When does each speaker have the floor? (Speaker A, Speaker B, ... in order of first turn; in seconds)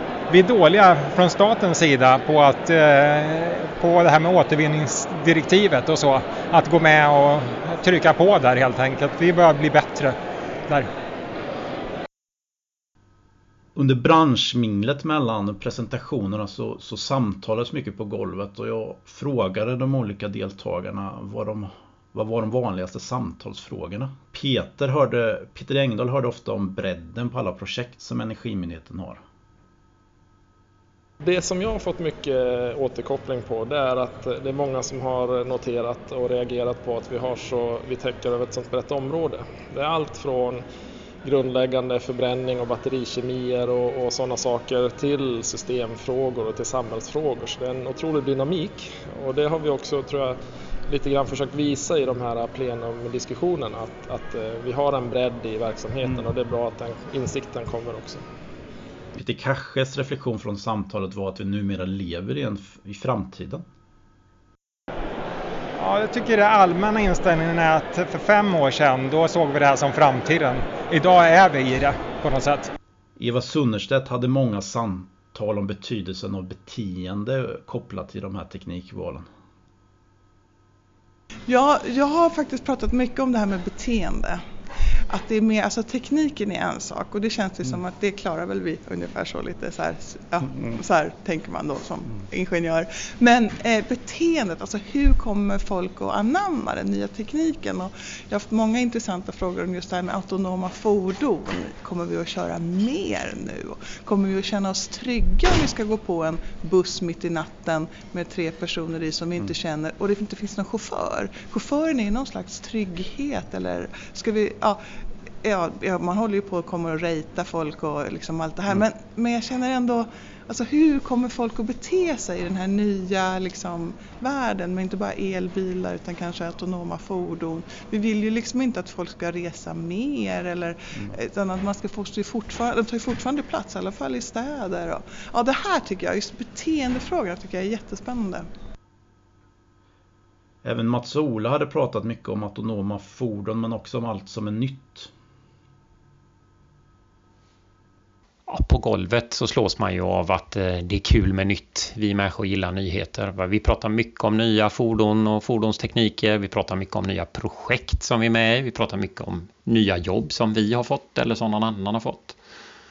Speaker A: 0.3-10.1, 65.8-72.7
Speaker B: 13.8-29.2, 59.1-63.6, 73.2-79.2, 140.6-145.1
Speaker C: 31.2-40.6, 41.2-58.2
Speaker D: 81.5-84.4, 85.1-114.8, 115.4-138.4
Speaker E: 148.5-162.3